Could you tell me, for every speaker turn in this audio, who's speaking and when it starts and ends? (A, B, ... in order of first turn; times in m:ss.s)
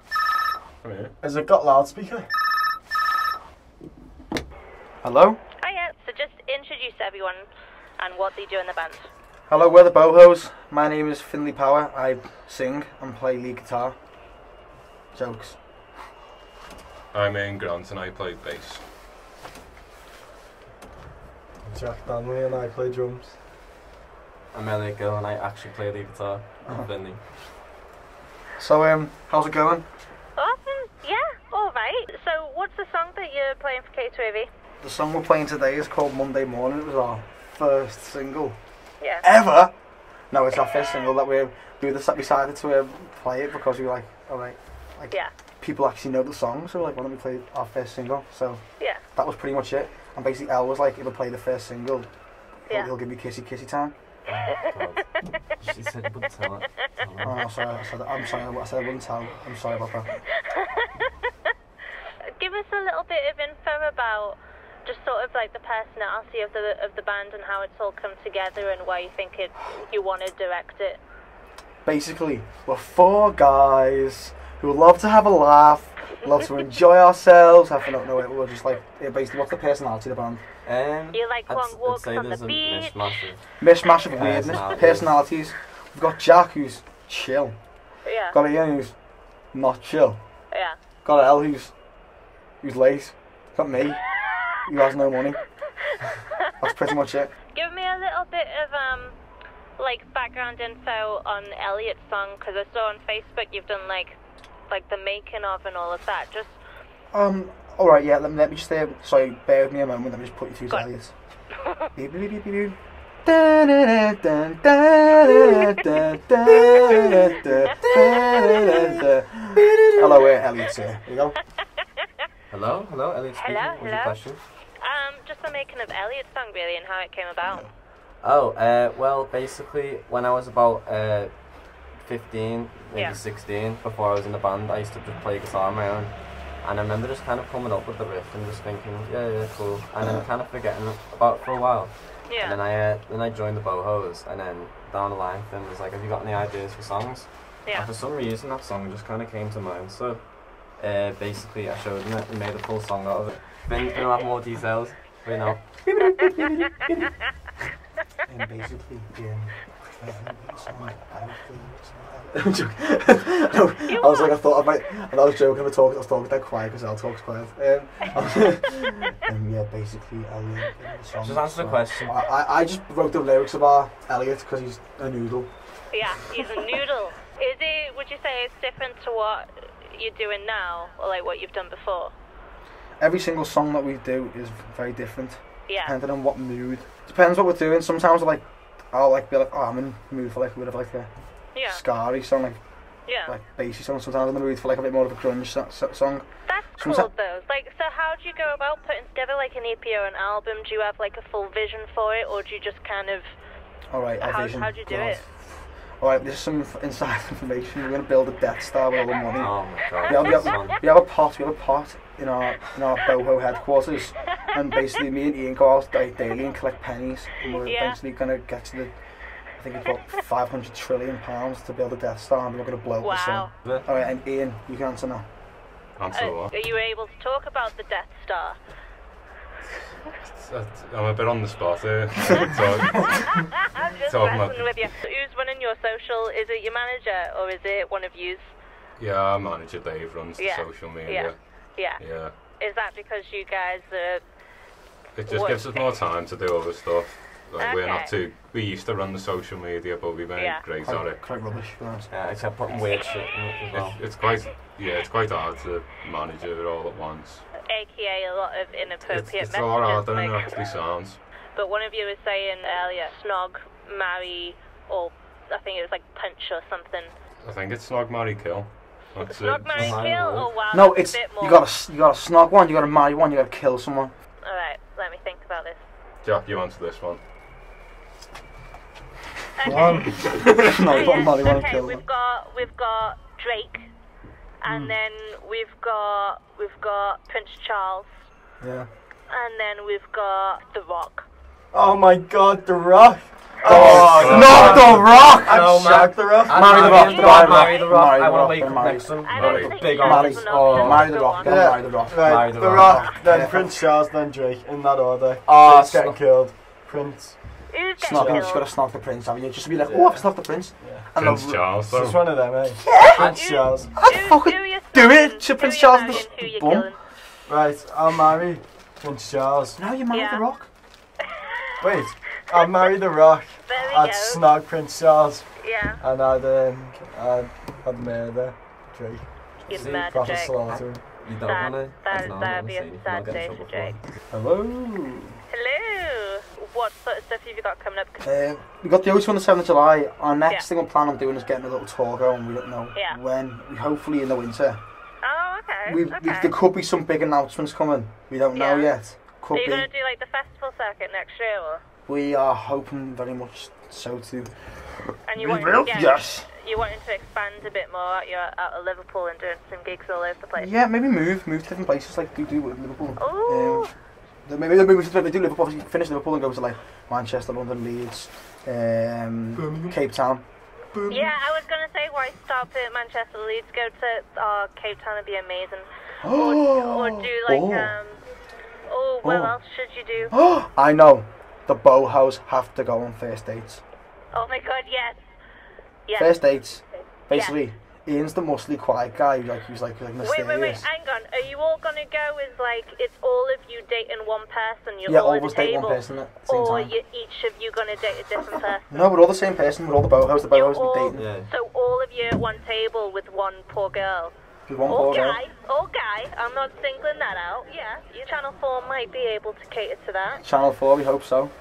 0:00.8-0:01.1 A
0:01.2-0:02.3 B
0:05.0-0:05.4 C
0:05.6-0:07.5 D
0:08.0-0:09.1 D
0:09.5-0:14.0 C
0:15.1-0:15.8 C
0:17.1-0:18.8 A
0:21.6-0:23.4 B
0:24.5-0:27.2 E
0:28.6-0:29.8 C
0:30.4-0:34.5 D
0:34.8-0:38.6 C
0:39.2-0:39.7 C
0:40.3-0:53.9 C
0:54.3-0:57.4 E
0:57.2-1:00.2 C
1:02.4-1:11.0 D
1:11.8-1:20.4 C
1:20.6-1:25.2 E
1:21.1-1:23.2 D
1:23.6-1:30.2 C
1:28.0-1:28.4 D
1:30.5-1:30.8 D
1:31.0-1:31.9 C
1:32.6-1:35.4 C
1:36.6-1:37.3 C
1:37.5-1:39.2 D
1:39.8-1:44.2 D
1:44.7-1:46.6 D
1:47.1-1:51.2 C
1:51.7-2:01.4 C
2:02.5-2:04.4 E
2:03.4-2:07.7 D
2:07.4-2:07.7 C
2:08.2-2:35.8 E
2:12.9-2:13.2 D
2:22.3-2:22.6 D
2:27.6-2:27.9 D
2:35.8-2:37.1 C
2:38.3-2:55.5 C
2:43.9-2:44.4 D
2:51.2-2:52.2 E
2:55.9-3:02.1 D
3:03.0-3:17.1 C
3:05.7-3:05.9 D
3:11.5-3:11.8 D
3:13.1-3:13.3 D
3:16.5-3:23.3 D
3:23.9-3:45.3 C
3:24.2-3:25.2 D
3:29.4-3:30.8 E
3:37.6-3:38.0 D
3:43.0-3:43.5 D
3:46.0-3:46.5 A
3:46.1-3:48.6 D
3:50.4-3:54.8 A
3:53.8-3:58.5 D
3:59.0-4:02.4 A
4:00.4-4:04.2 D
4:05.2-4:11.2 A
4:05.3-4:05.8 D
4:07.6-4:08.1 D
4:10.4-4:10.6 D
4:10.8-4:12.1 C
4:12.1-4:14.0 E
4:13.7-4:17.5 A
4:17.6-4:20.7 D
4:19.1-4:21.2 A
4:21.5-4:27.1 D
4:27.4-4:30.1 A
4:29.2-4:31.6 D
4:29.7-4:30.5 E
4:30.7-4:34.1 C
4:34.4-4:35.8 D
4:36.2-4:37.2 A
4:39.6-4:40.3 D
4:39.7-4:40.2 B
4:40.4-4:42.0 C
4:40.9-4:43.9 D
4:44.6-4:48.1 D
4:44.7-4:44.9 C
4:48.6-4:48.9 C
4:49.3-4:51.3 D
4:51.7-4:57.2 B
4:53.6-4:55.4 A
4:53.6-4:55.6 C
4:53.8-5:01.3 E
4:56.5-4:59.2 C
4:56.8-4:58.0 D
4:59.2-5:01.6 D
4:59.3-4:59.8 A
4:59.9-5:03.7 C
5:01.4-5:08.5 B
5:02.2-5:03.3 E
5:05.4-5:06.4 E
5:07.7-5:08.7 D
5:08.0-5:11.8 C
5:09.8-5:10.4 E
5:10.8-5:11.1 B
5:11.1-5:12.4 A
5:11.8-5:13.9 B
5:12.8-5:13.2 C
5:13.0-5:13.4 E
5:13.3-5:17.0 D
5:14.0-5:17.0 C
5:17.5-5:19.8 B
5:19.8-5:20.7 C
5:20.1-5:20.4 D
5:21.8-5:31.0 B
5:23.7-5:24.4 D
5:25.6-5:26.0 D
5:29.7-5:30.6 D
5:29.7-5:34.0 E
5:31.4-5:34.0 D
5:34.3-5:35.4 C
5:35.5-5:38.2 D
5:38.2-5:44.8 C
5:45.2-5:46.5 D
5:45.9-5:49.9 C
5:48.5-5:51.8 D
5:52.1-5:56.5 C
5:55.3-6:00.7 D
6:00.6-6:03.9 C
6:03.2-6:03.9 D
6:04.4-6:10.4 C
6:09.6-6:10.0 B
6:10.9-6:11.3 B
6:11.1-6:18.2 D
6:16.2-6:18.0 C
6:18.9-6:20.3 D
6:19.2-6:19.6 C
6:20.3-6:23.8 C
6:24.3-6:25.2 D
6:26.1-6:26.4 D
6:26.2-6:30.9 C
6:27.3-6:27.6 D
6:30.2-6:39.0 D
6:35.1-6:36.9 C
6:38.9-6:41.2 C
6:40.5-6:44.3 D
6:41.1-6:41.5 E
6:44.7-6:45.4 C
6:44.9-6:50.4 D
6:50.4-6:51.5 C